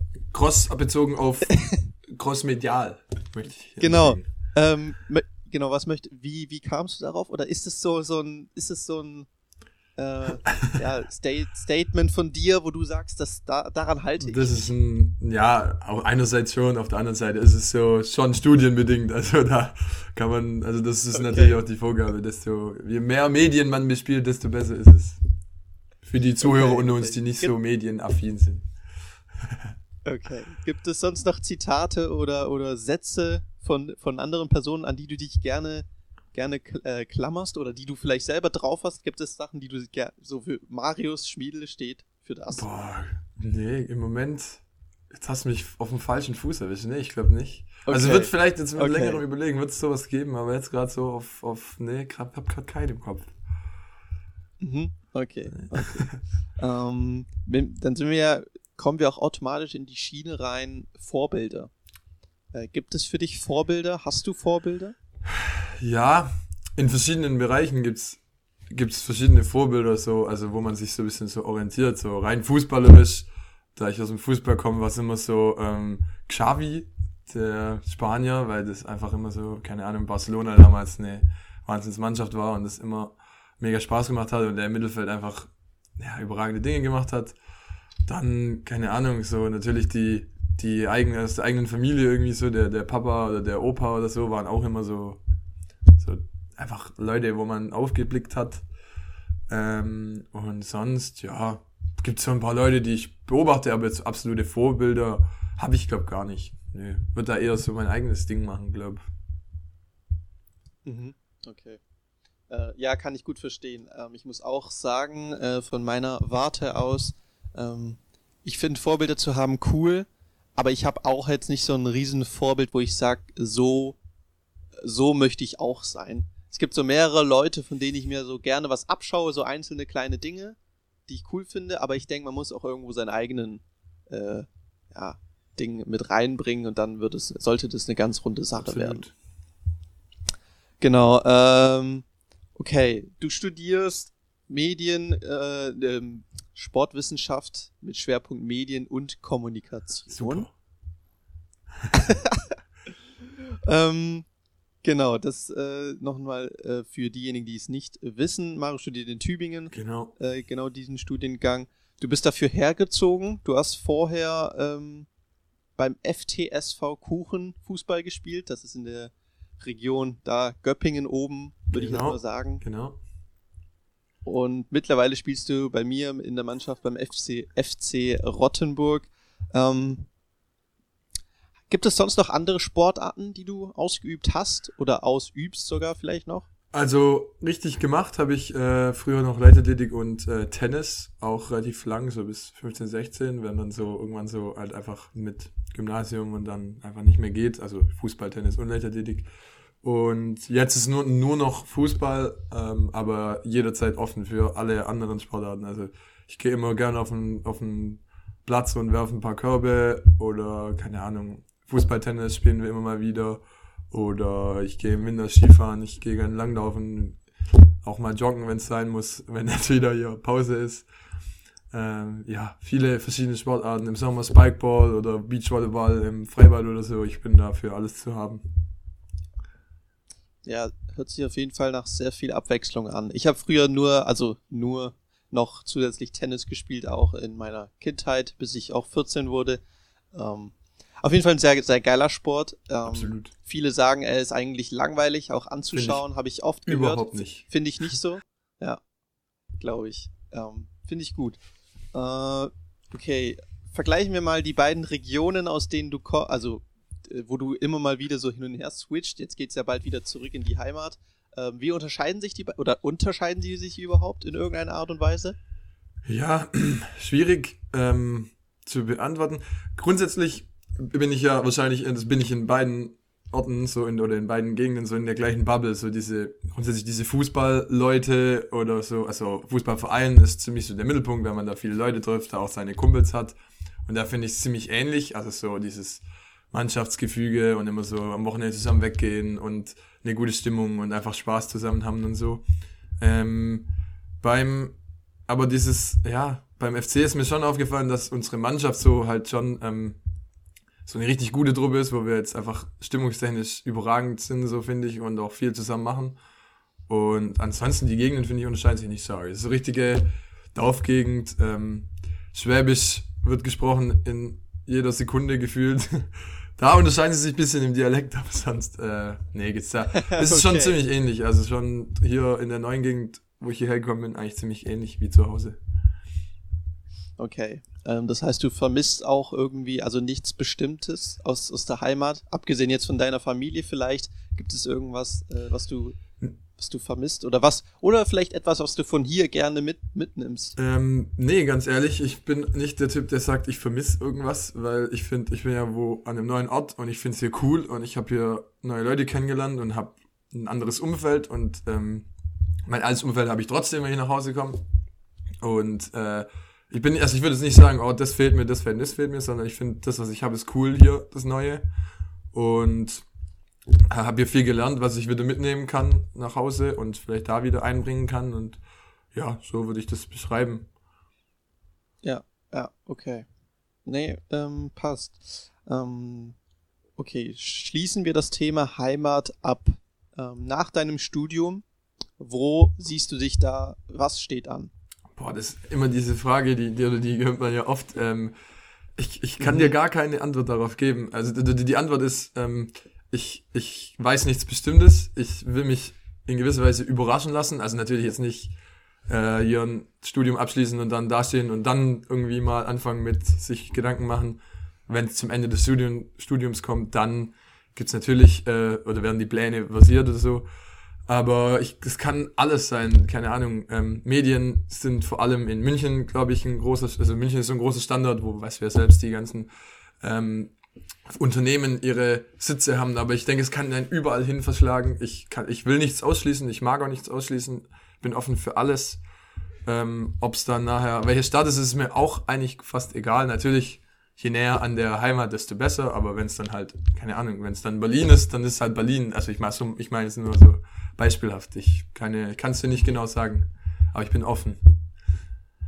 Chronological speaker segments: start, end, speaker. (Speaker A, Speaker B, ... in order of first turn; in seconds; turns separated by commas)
Speaker A: 0.3-4.2, Speaker B: 3.8-9.3, Speaker B: 9.9-14.7, Speaker A: 14.2-25.2, Speaker B: 21.1-21.6, Speaker A: 26.0-28.7, Speaker B: 26.4-27.5, Speaker A: 29.4-29.7, Speaker B: 30.0-42.6, Speaker A: 42.5-53.3, Speaker B: 47.9-49.2, Speaker B: 54.6-61.7, Speaker A: 55.7-56.2, Speaker B: 62.5-64.9, Speaker A: 65.3-68.2, Speaker A: 68.7-87.3, Speaker A: 88.0-95.2, Speaker A: 95.9-98.6, Speaker A: 99.5-109.0, Speaker B: 110.8-111.8, Speaker B: 112.5-124.0, Speaker B: 124.8-130.6, Speaker B: 131.1-139.1, Speaker A: 138.6-139.1, Speaker B: 140.8-142.0, Speaker B: 142.6-150.5, Speaker A: 150.1-150.5, Speaker B: 151.9-152.5, Speaker B: 153.3-154.2, Speaker B: 154.8-165.1, Speaker A: 159.7-160.1, Speaker B: 165.8-172.6, Speaker A: 171.7-173.0, Speaker B: 174.2-180.1, Speaker B: 181.7-186.4, Speaker A: 186.7-199.2, Speaker A: 199.8-217.2, Speaker A: 217.8-220.9, Speaker A: 221.7-228.4, Speaker B: 230.4-239.6, Speaker B: 240.1-248.8, Speaker A: 242.9-243.3, Speaker A: 245.7-246.0, Speaker A: 246.7-247.4, Speaker B: 249.6-251.4, Speaker B: 251.9-265.4, Speaker A: 266.1-283.3, Speaker A: 283.9-292.4, Speaker A: 293.0-293.7, Speaker A: 294.2-294.8, Speaker A: 295.3-300.0, Speaker A: 300.9-306.2, Speaker A: 306.9-325.6, Speaker B: 319.9-320.8, Speaker B: 327.2-336.0, Speaker B: 336.6-340.6, Speaker A: 340.6-352.1, Speaker A: 352.7-354.6, Speaker A: 355.4-361.6, Speaker A: 362.3-363.0, Speaker A: 363.9-368.6, Speaker A: 369.1-370.7, Speaker B: 372.0-373.2, Speaker B: 373.9-376.4, Speaker B: 377.0-381.6, Speaker B: 382.2-384.7, Speaker A: 385.1-388.3, Speaker A: 389.0-398.5, Speaker B: 389.4-389.7, Speaker A: 399.1-410.4, Speaker A: 411.1-419.5, Speaker A: 420.0-420.5, Speaker A: 421.1-429.0, Speaker A: 429.6-444.8